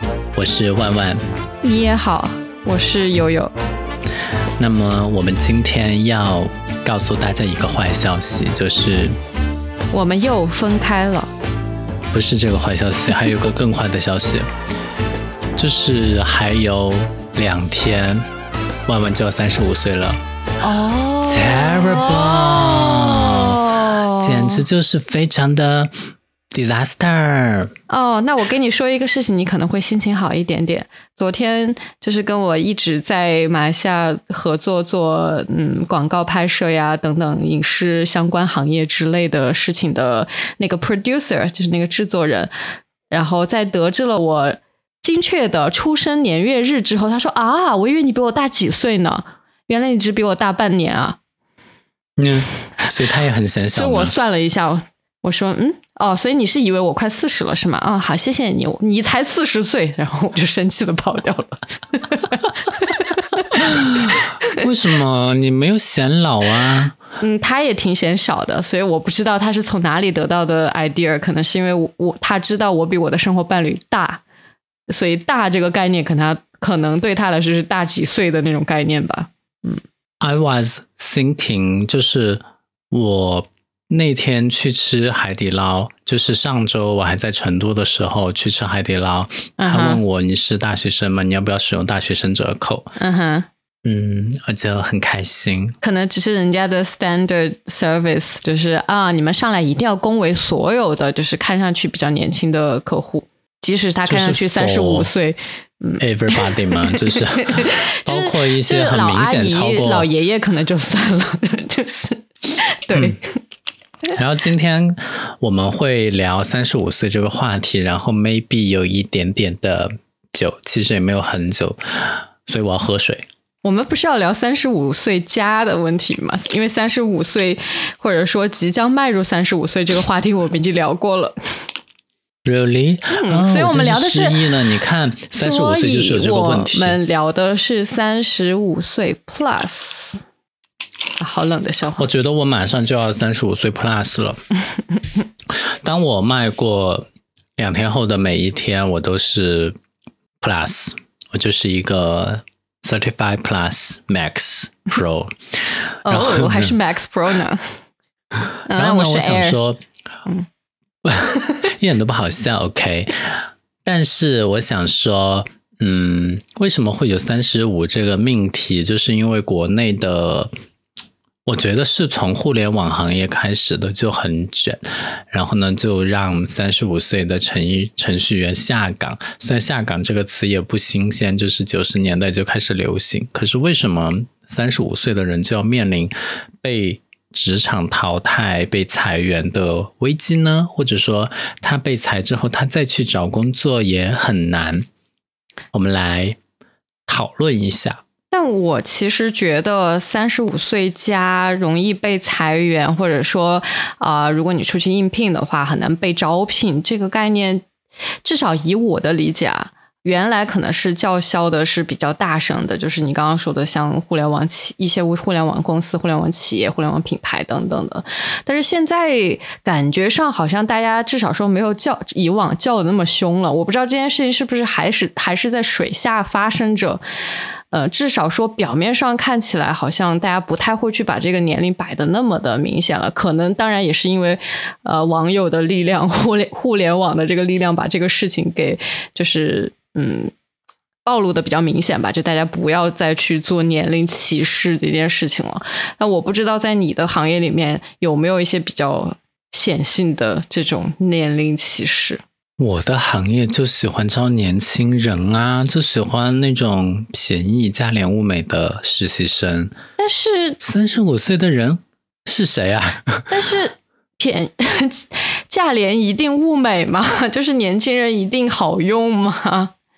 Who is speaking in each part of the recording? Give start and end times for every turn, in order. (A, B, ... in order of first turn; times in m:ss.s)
0:00.4-0:01.2 A
0:01.6-0:03.5 B
0:04.6-0:09.2 A
0:09.9-0:11.3 B
0:12.1-0:14.5 A
0:15.6-0:18.3 A
0:18.9-0:20.2 A
0:20.6-0:24.6 B
0:21.2-0:25.9 A
0:26.5-0:27.7 A
0:27.9-0:42.5 B
0:43.1-0:51.2 B
0:52.2-0:54.1 A
0:53.7-1:04.6 B
1:03.6-1:07.0 A
1:07.2-1:14.2 B
1:14.9-1:19.8 B
1:20.2-1:32.9 A
1:29.6-1:30.0 B
1:33.0-1:33.5 B
1:33.8-1:35.8 A
1:35.8-1:53.2 B
1:44.1-1:45.1 A
1:46.0-1:50.1 A
1:54.2-2:03.3 A
2:03.6-2:11.4 B
2:12.4-2:17.0 A
2:13.1-2:14.5 B
2:15.4-2:20.2 B
2:21.2-2:22.1 B
2:22.0-2:24.4 A
2:25.5-2:29.8 A
2:30.4-2:36.7 A
2:36.0-2:37.7 B
2:38.6-2:39.6 B
2:38.7-2:39.8 A
2:41.0-2:50.5 A
2:51.4-3:14.9 A
3:15.7-3:16.4 A
3:17.1-3:18.0 A
3:18.3-3:27.7 B
3:28.2-3:47.0 B
3:47.7-4:00.3 B
4:01.0-4:12.2 B
4:12.6-4:19.8 A
4:20.0-4:20.6 B
4:20.6-4:23.3 A
4:23.3-4:29.7 B